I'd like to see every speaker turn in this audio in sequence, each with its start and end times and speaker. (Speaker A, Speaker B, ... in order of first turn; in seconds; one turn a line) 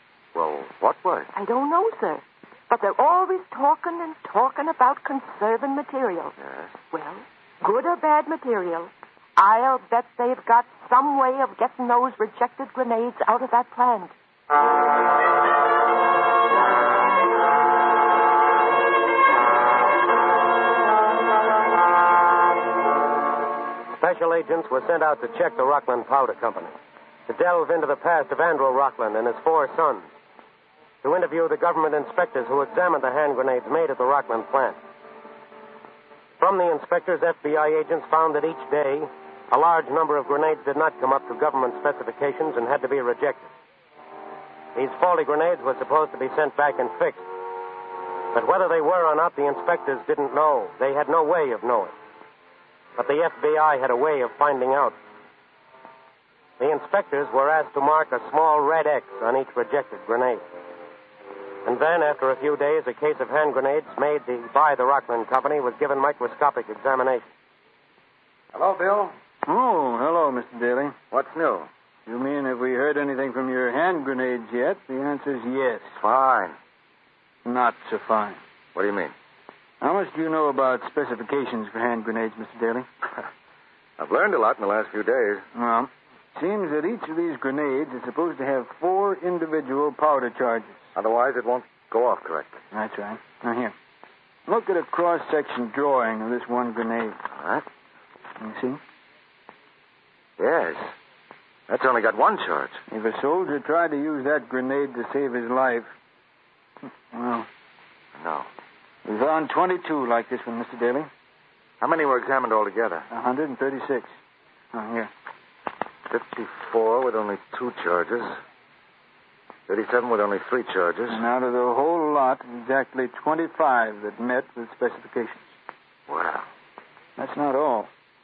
Speaker A: 0.3-1.3
Speaker B: 1.4-6.3
Speaker A: 6.4-6.7
Speaker B: 6.9-14.1
Speaker C: 24.0-26.7
Speaker C: 27.3-30.1
Speaker C: 31.0-34.8
Speaker C: 36.4-43.5
Speaker C: 44.8-47.2
Speaker C: 48.3-51.9
Speaker C: 53.0-55.0
Speaker C: 56.6-60.4
Speaker C: 61.7-67.3
Speaker A: 68.5-69.1
Speaker D: 69.5-71.0
Speaker A: 71.1-71.7
Speaker D: 72.1-75.9
Speaker A: 76.0-76.6
Speaker D: 77.5-78.4
Speaker A: 78.8-79.1
Speaker D: 79.8-82.9
Speaker A: 84.0-85.4
Speaker D: 85.5-90.8
Speaker A: 91.0-92.6
Speaker D: 92.7-93.7
Speaker D: 94.5-97.2
Speaker A: 97.3-97.7
Speaker D: 98.4-98.8
Speaker A: 100.4-100.9
Speaker A: 101.7-102.8
Speaker D: 102.9-105.9
Speaker D: 107.1-107.5
Speaker A: 108.2-108.5
Speaker D: 109.1-111.1
Speaker A: 111.8-113.1
Speaker D: 113.1-114.1
Speaker D: 114.7-115.1
Speaker A: 116.1-118.4
Speaker A: 119.7-121.3
Speaker D: 121.1-125.5
Speaker A: 126.1-126.5
Speaker D: 127.2-127.9